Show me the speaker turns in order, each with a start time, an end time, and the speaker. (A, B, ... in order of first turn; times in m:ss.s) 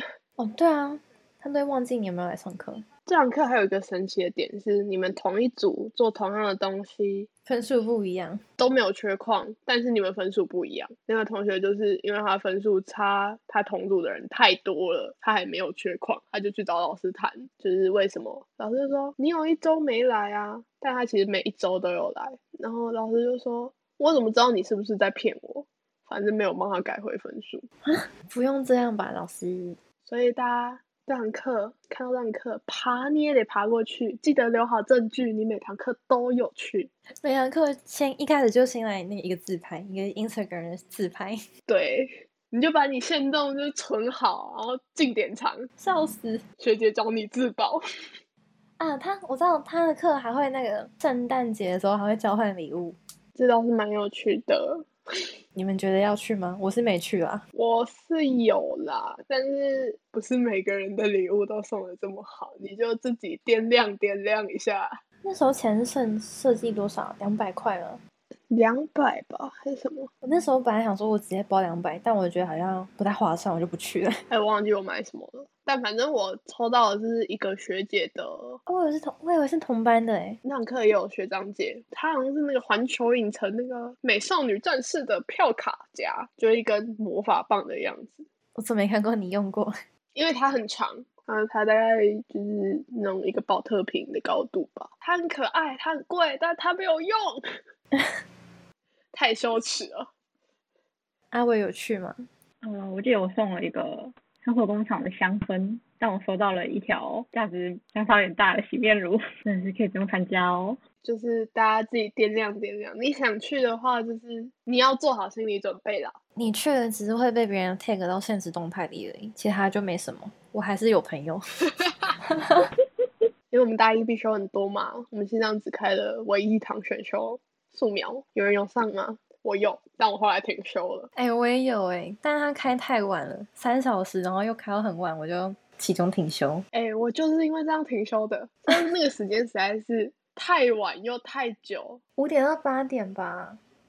0:00.4-0:02.8 A
0:03.0-0:07.3 B
0:07.4-0:08.4 A
0:08.6-0:27.6 B
0:27.8-0:29.8 A
0:30.0-0:36.9 B
0:37.2-0:41.4 A
0:41.7-0:45.7 B
0:45.8-0:46.4 A
0:46.6-0:47.8 B
0:48.8-0:53.0 A
0:53.4-0:54.9 B
0:55.5-0:57.4 A
0:57.5-1:05.0 B
1:05.2-1:08.0 A
1:08.5-1:10.1 B
1:10.2-1:14.2 A
1:14.3-1:18.6 B
1:18.7-1:20.4 A
1:20.4-1:28.2 B
1:28.6-1:29.7 A
1:30.1-1:37.4 B
1:39.1-1:40.1 B
1:41.3-1:42.2 A
1:42.6-1:50.8 C
1:51.0-1:56.2 B
1:56.4-2:01.4 A
2:02.2-2:02.7 A
2:03.5-2:11.1 B
2:11.1-2:16.6 A
2:16.7-2:22.0 B
2:22.2-2:23.6 A